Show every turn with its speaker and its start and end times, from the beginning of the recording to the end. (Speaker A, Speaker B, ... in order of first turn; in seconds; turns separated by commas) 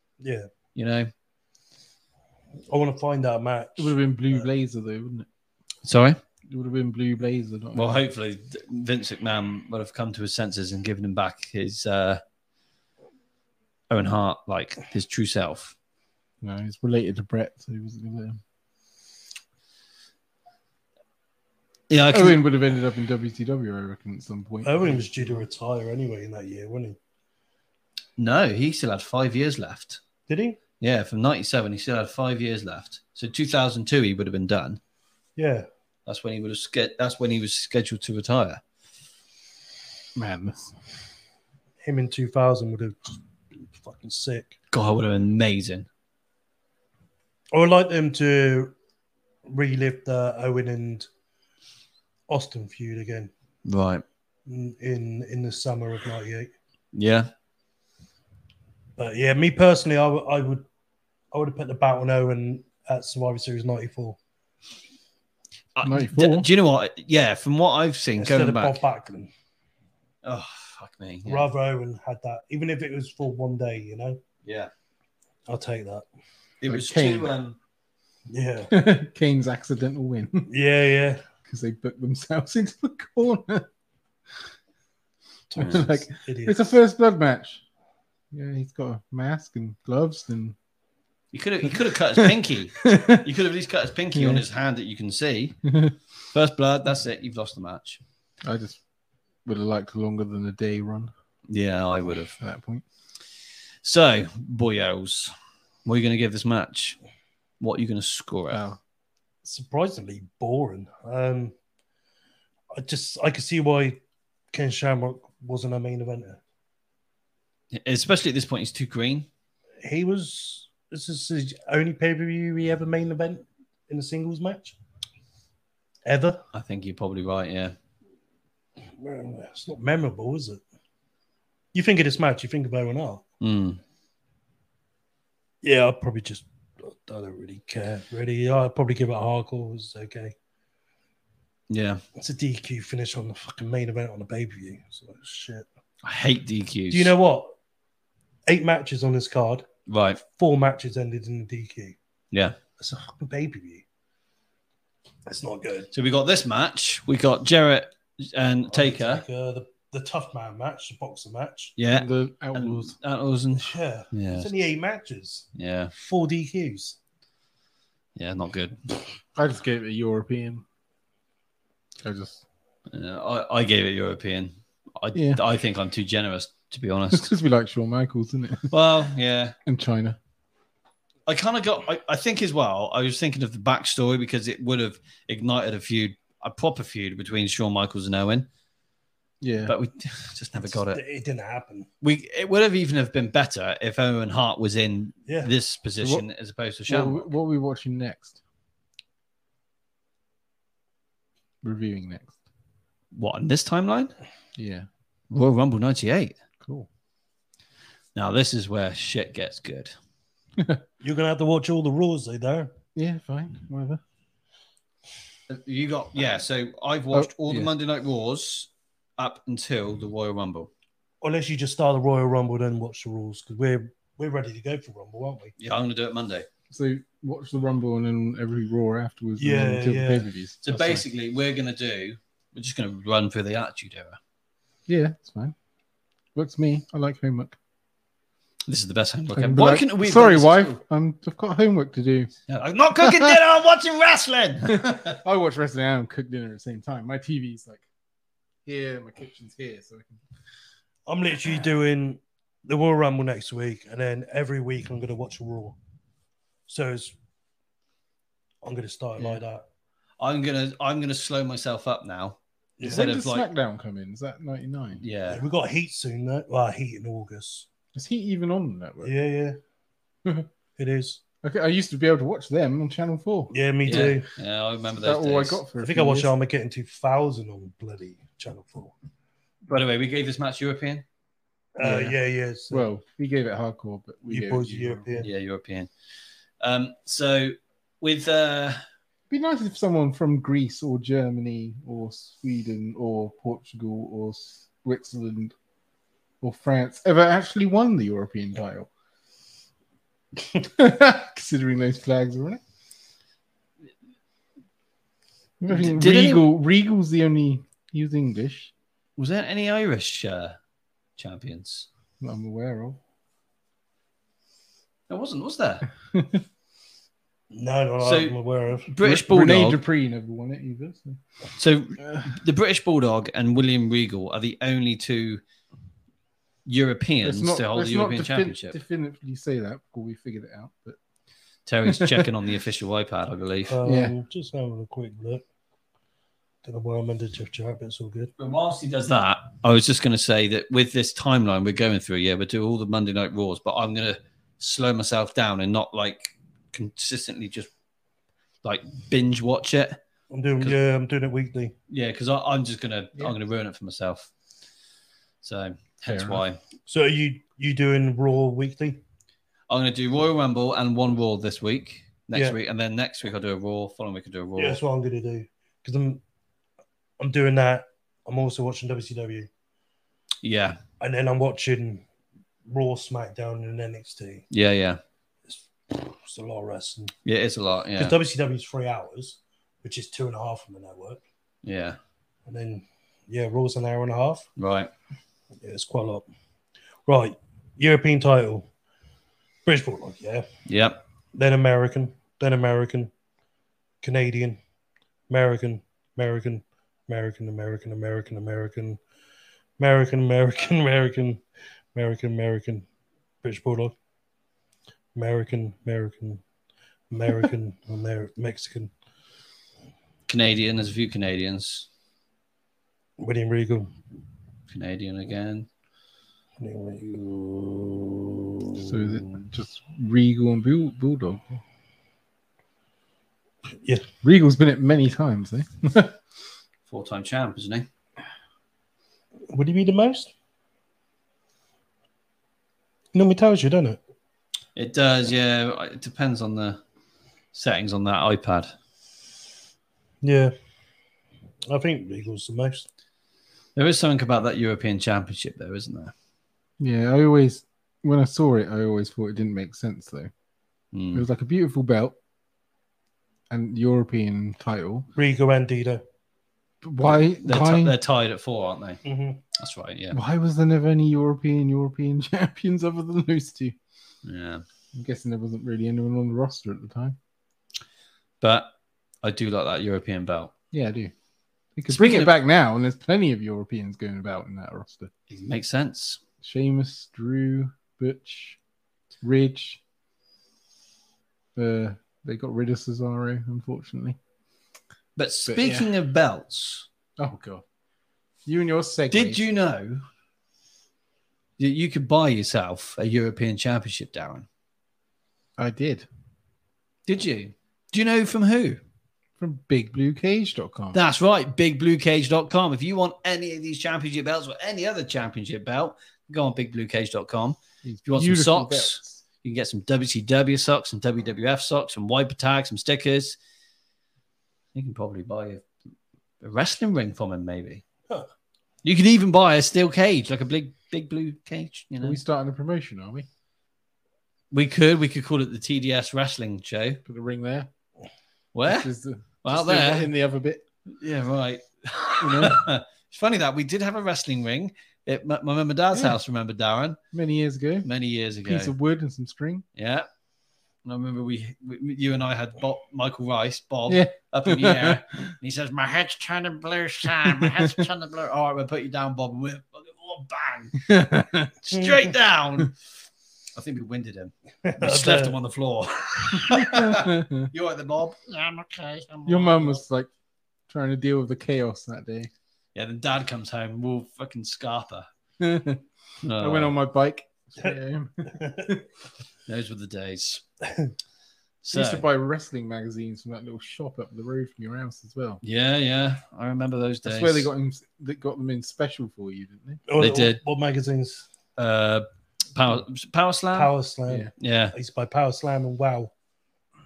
Speaker A: 0.2-0.5, Speaker B: 0.8-1.1, Speaker A: 2.7-4.4, Speaker C: 3.8-5.3, Speaker B: 5.8-6.2, Speaker C: 6.5-8.0, Speaker B: 7.8-12.2, Speaker B: 13.9-15.8, Speaker C: 16.4-18.4, Speaker B: 21.9-22.4, Speaker C: 22.1-25.5, Speaker A: 24.6-27.0, Speaker B: 28.2-30.0, Speaker A: 30.3-30.6, Speaker B: 30.8-34.8, Speaker A: 35.4-35.7, Speaker B: 36.1-38.6, Speaker C: 40.2-40.8, Speaker A: 41.8-44.6, Speaker B: 44.7-45.9, Speaker A: 47.5-48.8, Speaker A: 49.5-51.1, Speaker A: 52.3-53.3, Speaker B: 53.7-54.0, Speaker A: 54.5-56.5, Speaker B: 56.9-57.3, Speaker A: 59.0-60.7, Speaker A: 61.3-64.2, Speaker B: 65.8-68.8, Speaker C: 65.8-66.5, Speaker A: 68.2-69.3, Speaker B: 70.2-71.5, Speaker A: 71.3-74.2, Speaker B: 74.4-74.7, Speaker A: 75.5-76.0, Speaker B: 76.6-77.6, Speaker C: 76.7-77.3, Speaker A: 78.3-78.7, Speaker C: 78.7-80.5, Speaker A: 80.5-81.2, Speaker C: 81.5-83.7, Speaker A: 85.5-86.6, Speaker C: 85.6-87.6, Speaker C: 88.3-90.6, Speaker B: 91.3-95.6, Speaker C: 92.2-93.2, Speaker C: 94.1-94.5, Speaker C: 95.7-96.0, Speaker B: 96.3-98.0, Speaker C: 98.4-98.8, Speaker C: 99.5-101.1, Speaker B: 101.5-102.4, Speaker C: 102.4-102.8, Speaker B: 103.8-105.3, Speaker B: 105.9-107.0, Speaker B: 107.6-108.6, Speaker C: 108.5-108.8, Speaker A: 109.4-111.5, Speaker A: 112.7-114.0, Speaker A: 114.5-116.4, Speaker B: 117.7-119.3, Speaker A: 119.8-124.8, Speaker A: 126.1-126.4, Speaker B: 126.5-127.8, Speaker A: 129.0-130.6, Speaker A: 131.7-133.2, Speaker B: 133.4-133.8, Speaker A: 135.6-140.3, Speaker B: 141.7-142.0, Speaker A: 142.2-145.7, Speaker B: 146.0-147.1, Speaker A: 146.9-147.6, Speaker A: 148.5-149.7, Speaker B: 149.9-150.2, Speaker A: 150.2-152.0, Speaker B: 152.3-152.6, Speaker A: 152.8-153.8, Speaker A: 155.3-155.9, Speaker B: 155.9-159.2, Speaker A: 158.7-161.8, Speaker B: 161.8-164.5, Speaker C: 161.9-162.9, Speaker A: 163.6-167.0, Speaker B: 165.6-165.9, Speaker B: 168.2-168.8, Speaker C: 169.3-170.7, Speaker C: 172.0-172.4, Speaker B: 172.9-177.3, Speaker C: 175.1-175.4, Speaker C: 177.1-178.7, Speaker B: 178.7-179.6, Speaker C: 179.7-180.2, Speaker B: 181.3-188.5, Speaker C: 189.4-189.8, Speaker B: 189.7-191.0, Speaker A: 190.7-191.9, Speaker B: 192.0-197.3, Speaker A: 195.3-195.5, Speaker C: 196.0-196.3, Speaker C: 196.9-198.4, Speaker C: 201.6-202.3, Speaker B: 203.1-204.1, Speaker C: 204.6-204.9, Speaker B: 205.3-206.4, Speaker C: 206.6-206.9, Speaker B: 208.2-209.9, Speaker C: 210.6-210.8, Speaker A: 211.0-212.7, Speaker C: 213.0-214.0, Speaker B: 215.5-220.7, Speaker C: 217.1-217.7, Speaker A: 221.2-225.6, Speaker B: 225.6-226.5, Speaker C: 226.7-231.0, Speaker A: 229.4-230.3, Speaker B: 230.6-234.2, Speaker C: 234.9-235.6, Speaker C: 236.3-237.6, Speaker B: 238.7-240.8, Speaker C: 239.3-242.3, Speaker B: 242.5-245.2, Speaker C: 243.0-243.4, Speaker C: 244.7-247.8, Speaker C: 248.7-250.2, Speaker A: 251.1-255.8, Speaker A: 256.7-257.2, Speaker A: 258.6-259.6, Speaker B: 260.2-263.5, Speaker A: 262.8-263.1, Speaker C: 262.8-265.0, Speaker B: 265.0-265.4, Speaker A: 265.3-267.7, Speaker C: 267.9-269.1, Speaker A: 269.0-269.6, Speaker A: 270.8-271.2, Speaker C: 271.4-274.1, Speaker A: 273.5-274.3, Speaker B: 273.9-275.6, Speaker C: 275.0-276.3, Speaker A: 275.8-278.9, Speaker B: 279.7-281.1, Speaker A: 281.8-282.8, Speaker C: 281.8-282.2, Speaker C: 282.7-285.1, Speaker A: 284.3-285.3, Speaker B: 285.2-285.9, Speaker B: 286.6-288.8, Speaker C: 289.3-295.6, Speaker C: 296.4-298.9, Speaker C: 300.6-302.6, Speaker C: 305.6-308.7, Speaker B: 305.7-306.5, Speaker B: 309.2-310.6, Speaker B: 311.2-311.9, Speaker C: 312.2-313.0, Speaker B: 315.1-315.9, Speaker C: 316.1-316.4, Speaker A: 317.5-318.9, Speaker B: 318.0-318.4, Speaker B: 318.9-319.8, Speaker C: 319.0-321.2, Speaker B: 321.6-325.4, Speaker C: 322.0-322.4, Speaker B: 326.7-328.8, Speaker C: 327.2-331.0, Speaker B: 331.7-333.8, Speaker C: 331.9-332.3, Speaker A: 333.7-335.4, Speaker C: 333.8-334.1, Speaker A: 336.6-338.3, Speaker B: 338.4-347.7, Speaker B: 348.6-350.0, Speaker A: 350.3-351.8, Speaker B: 351.9-354.3, Speaker B: 355.4-356.6, Speaker C: 356.1-356.4, Speaker A: 356.9-359.0, Speaker B: 359.7-364.8, Speaker A: 364.6-366.2, Speaker A: 367.2-369.5, Speaker B: 370.4-370.8, Speaker A: 371.0-372.1, Speaker A: 372.7-374.4, Speaker B: 374.5-375.0, Speaker A: 375.5-377.2, Speaker B: 377.3-378.1, Speaker A: 378.0-381.2, Speaker B: 381.6-382.0, Speaker A: 382.5-384.5, Speaker B: 384.6-384.9, Speaker A: 385.6-386.3, Speaker A: 387.1-388.7, Speaker A: 389.6-390.5, Speaker B: 390.7-391.0, Speaker A: 391.3-393.1, Speaker A: 394.0-394.6, Speaker A: 395.3-399.0, Speaker A: 399.8-401.4, Speaker A: 401.9-402.9, Speaker A: 403.4-404.0, Speaker A: 405.1-406.4, Speaker A: 407.1-408.9, Speaker B: 410.3-411.9, Speaker A: 413.2-413.9, Speaker B: 414.7-415.7, Speaker A: 416.6-419.2, Speaker C: 418.8-421.6, Speaker C: 424.2-426.2, Speaker B: 426.9-427.9, Speaker A: 429.5-430.3, Speaker A: 433.1-434.0, Speaker B: 434.8-436.8, Speaker B: 437.5-438.7, Speaker A: 440.2-440.5, Speaker A: 441.7-442.9, Speaker B: 443.8-446.1, Speaker C: 446.8-450.3, Speaker B: 450.9-451.2, Speaker C: 451.1-452.2, Speaker C: 453.5-455.1, Speaker A: 455.1-456.0, Speaker C: 456.8-458.0, Speaker B: 457.1-459.0, Speaker A: 459.1-459.4, Speaker B: 459.6-460.2, Speaker C: 460.1-463.8, Speaker B: 464.2-464.6, Speaker C: 464.9-467.2, Speaker B: 468.4-470.5, Speaker C: 470.7-471.1, Speaker C: 471.8-475.1, Speaker B: 471.9-472.3, Speaker B: 475.3-476.2, Speaker C: 476.4-478.6, Speaker C: 479.2-479.8, Speaker C: 481.6-484.2, Speaker B: 485.2-486.9, Speaker C: 485.5-485.9, Speaker C: 487.2-487.6, Speaker C: 488.4-489.5, Speaker B: 489.1-490.0, Speaker B: 491.6-494.5, Speaker C: 495.6-496.1, Speaker B: 497.1-498.8, Speaker C: 499.4-501.0, Speaker B: 500.9-513.4, Speaker C: 507.8-509.2, Speaker B: 514.7-515.6, Speaker B: 516.4-517.8, Speaker B: 518.8-522.2, Speaker C: 522.0-523.3, Speaker B: 524.5-527.0, Speaker C: 527.1-527.7, Speaker B: 528.5-528.9, Speaker C: 528.7-530.6, Speaker B: 529.4-530.1, Speaker B: 530.9-537.0, Speaker C: 532.2-532.7, Speaker C: 537.1-537.9, Speaker B: 537.9-538.7, Speaker C: 538.4-539.7, Speaker B: 539.8-540.1, Speaker B: 540.9-550.9, Speaker C: 543.9-545.3, Speaker C: 547.2-547.9, Speaker C: 550.8-551.6, Speaker B: 551.6-552.8, Speaker B: 553.5-559.8, Speaker A: 554.6-555.4, Speaker C: 556.4-557.5, Speaker C: 559.3-560.1, Speaker C: 560.7-562.3, Speaker B: 562.8-565.1, Speaker C: 565.4-565.8, Speaker B: 566.2-566.8, Speaker C: 566.4-568.8, Speaker A: 568.4-568.8, Speaker B: 569.5-570.4, Speaker B: 571.6-572.1, Speaker C: 571.7-575.4, Speaker B: 575.4-577.5, Speaker C: 577.0-579.8, Speaker A: 579.9-581.3, Speaker B: 580.0-580.4, Speaker B: 581.6-583.7, Speaker A: 583.5-586.1, Speaker B: 584.4-584.8